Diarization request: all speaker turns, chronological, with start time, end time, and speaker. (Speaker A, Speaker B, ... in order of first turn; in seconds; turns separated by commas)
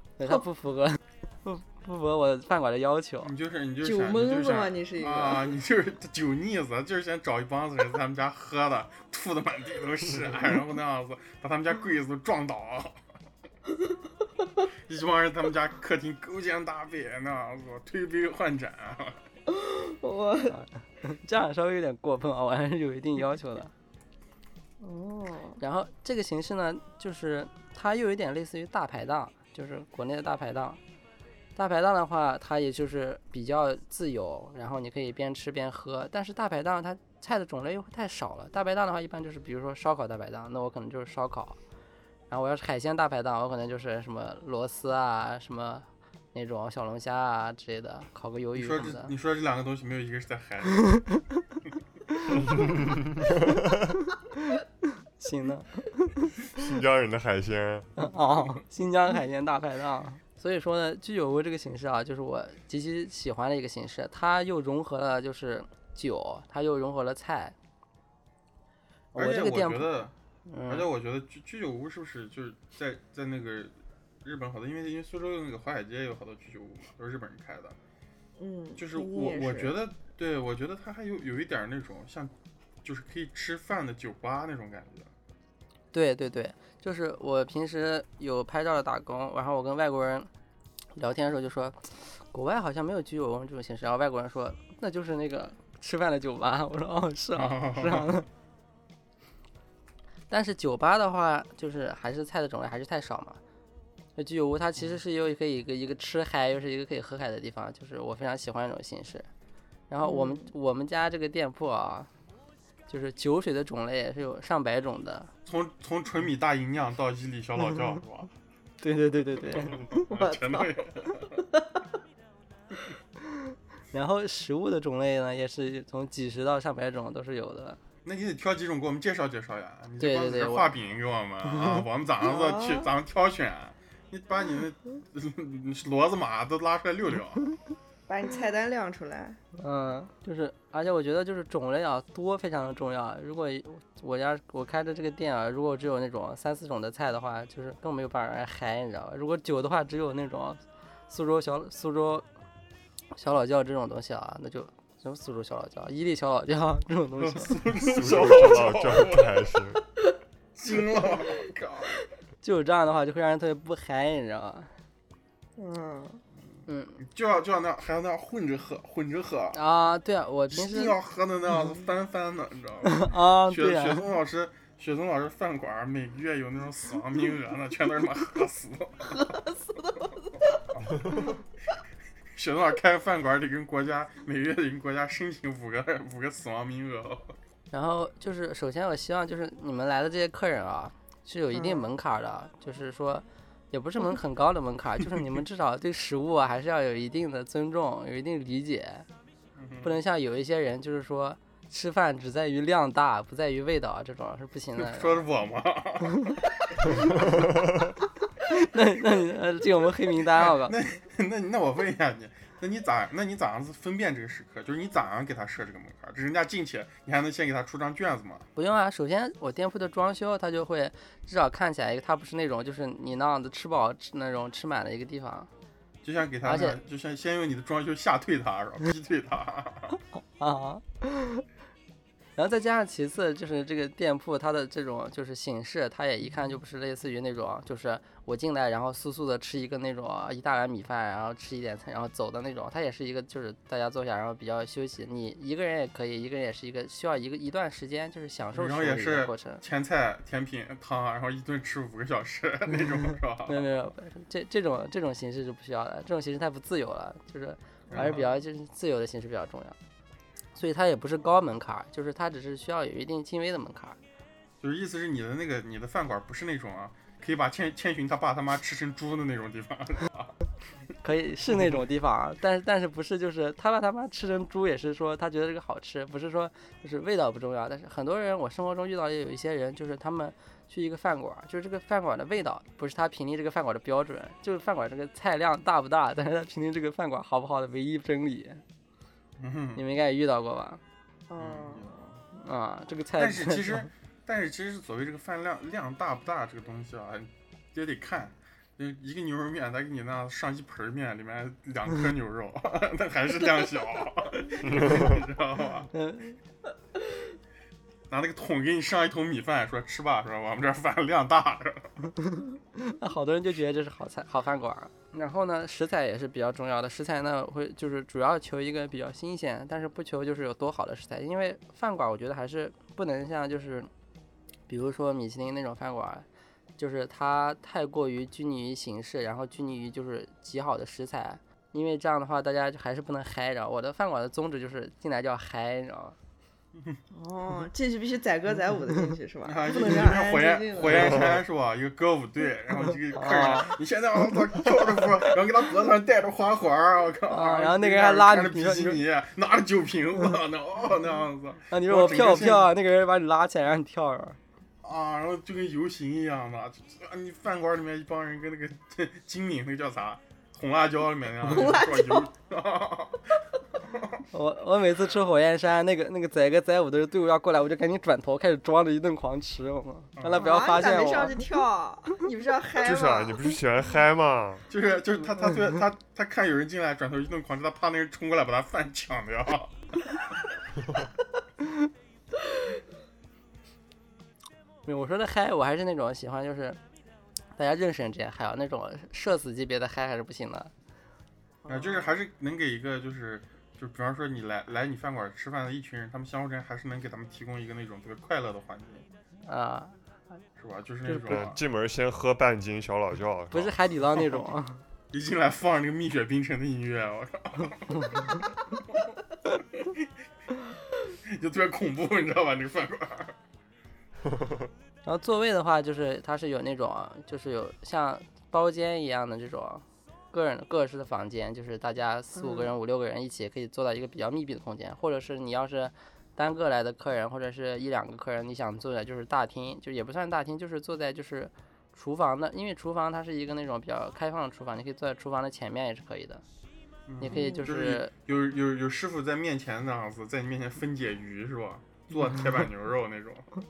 Speaker A: 0.2-3.3, Speaker B: 3.2-13.0, Speaker C: 3.8-5.5, Speaker B: 14.9-19.2, Speaker C: 19.5-20.6, Speaker A: 20.5-23.7, Speaker C: 24.8-25.6, Speaker A: 25.6-30.8, Speaker A: 31.6-41.6, Speaker A: 42.3-49.1, Speaker B: 48.5-51.0, Speaker D: 52.5-53.3, Speaker A: 55.2-56.1, Speaker D: 56.5-57.9, Speaker A: 58.0-67.5, Speaker A: 69.1-69.9, Speaker B: 69.2-70.1, Speaker A: 70.5-70.9, Speaker B: 70.7-77.8, Speaker C: 78.4-79.8, Speaker B: 78.8-82.3, Speaker B: 82.8-85.1, Speaker A: 85.9-90.3, Speaker A: 91.0-98.3, Speaker B: 97.3-98.2, Speaker A: 100.3-103.4, Speaker A: 104.2-109.3, Speaker A: 109.9-112.1, Speaker C: 110.0-110.5, Speaker A: 112.9-115.3, Speaker B: 115.5-118.3, Speaker A: 118.8-120.0, Speaker B: 119.4-121.3, Speaker C: 120.1-121.6, Speaker A: 123.9-127.8, Speaker B: 128.0-137.4, Speaker A: 130.0-130.7, Speaker A: 131.5-131.8, Speaker C: 132.2-132.9, Speaker C: 138.1-139.4, Speaker A: 139.6-152.2, Speaker A: 153.1-157.6, Speaker B: 157.2-159.3, Speaker D: 157.8-159.8, Speaker B: 160.6-162.0, Speaker A: 162.4-164.7, Speaker C: 165.6-166.2, Speaker A: 166.7-167.0, Speaker B: 167.0-169.6, Speaker A: 169.5-170.9, Speaker B: 170.5-179.3, Speaker A: 172.9-174.0, Speaker C: 179.1-180.1, Speaker B: 182.3-187.3, Speaker A: 187.7-199.1, Speaker C: 191.5-191.8, Speaker B: 199.6-200.0, Speaker A: 199.8-205.2, Speaker B: 204.8-207.3, Speaker A: 208.4-210.8, Speaker B: 210.4-218.5, Speaker A: 218.6-225.5, Speaker B: 226.0-229.9, Speaker A: 226.4-226.8, Speaker A: 230.4-231.4, Speaker A: 232.3-249.6, Speaker B: 248.5-253.7, Speaker A: 253.5-259.8, Speaker B: 257.9-258.3, Speaker A: 260.6-264.0, Speaker B: 264.6-270.3, Speaker A: 271.0-288.6, Speaker B: 289.4-289.8, Speaker A: 289.8-290.8, Speaker C: 291.3-292.0, Speaker B: 291.4-292.1, Speaker A: 292.4-293.9, Speaker B: 293.2-305.9, Speaker D: 304.7-305.2, Speaker A: 305.9-306.4, Speaker B: 308.1-311.9, Speaker A: 312.7-323.9, Speaker A: 324.7-326.2, Speaker A: 326.8-336.1, Speaker C: 337.1-341.3, Speaker B: 339.4-352.7, Speaker A: 343.1-343.8, Speaker A: 347.3-349.0, Speaker A: 351.7-354.4, Speaker B: 354.8-363.3, Speaker C: 361.4-362.3, Speaker B: 363.9-364.2, Speaker A: 364.3-371.5, Speaker B: 370.2-370.6, Speaker C: 370.3-373.5, Speaker D: 372.8-374.6, Speaker B: 374.7-379.8, Speaker A: 384.8-386.8, Speaker A: 387.6-390.7, Speaker C: 391.6-392.1, Speaker B: 391.7-399.1, Speaker A: 399.4-399.9, Speaker B: 400.6-401.6, Speaker A: 401.1-401.4, Speaker D: 401.2-403.8, Speaker A: 403.5-404.8, Speaker B: 405.1-408.5, Speaker B: 409.5-410.0, Speaker B: 411.2-413.3, Speaker A: 415.0-436.4, Speaker C: 422.4-422.7, Speaker B: 437.1-443.5, Speaker A: 437.2-438.1, Speaker C: 437.3-437.7